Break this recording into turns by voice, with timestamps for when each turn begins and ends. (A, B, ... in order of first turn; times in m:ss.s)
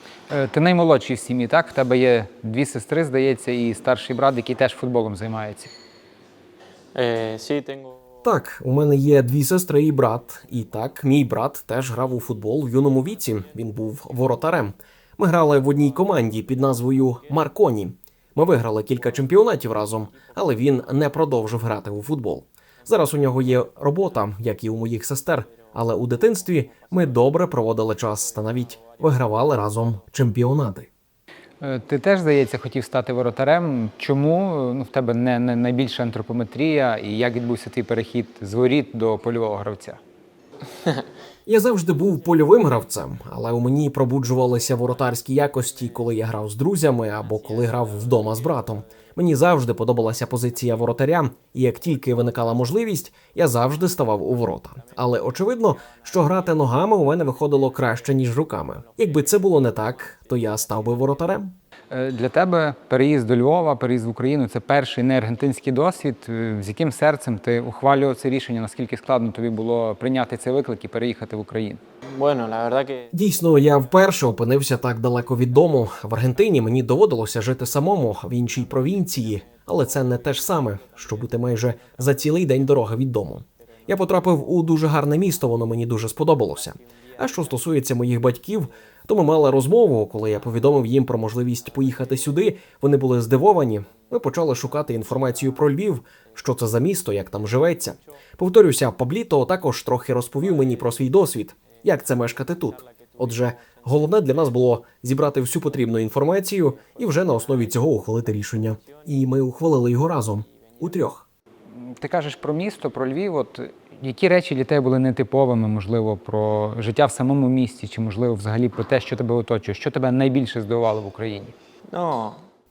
0:00.3-0:05.7 A
0:07.0-0:08.0 B
0:08.2-0:30.9 C
0:31.6-0:40.0 A
0:41.5-1:01.6 C
1:01.9-1:11.8 A
1:12.1-1:13.1 B
1:13.1-1:51.3 C
1:52.0-2:01.6 A
2:01.9-2:02.4 B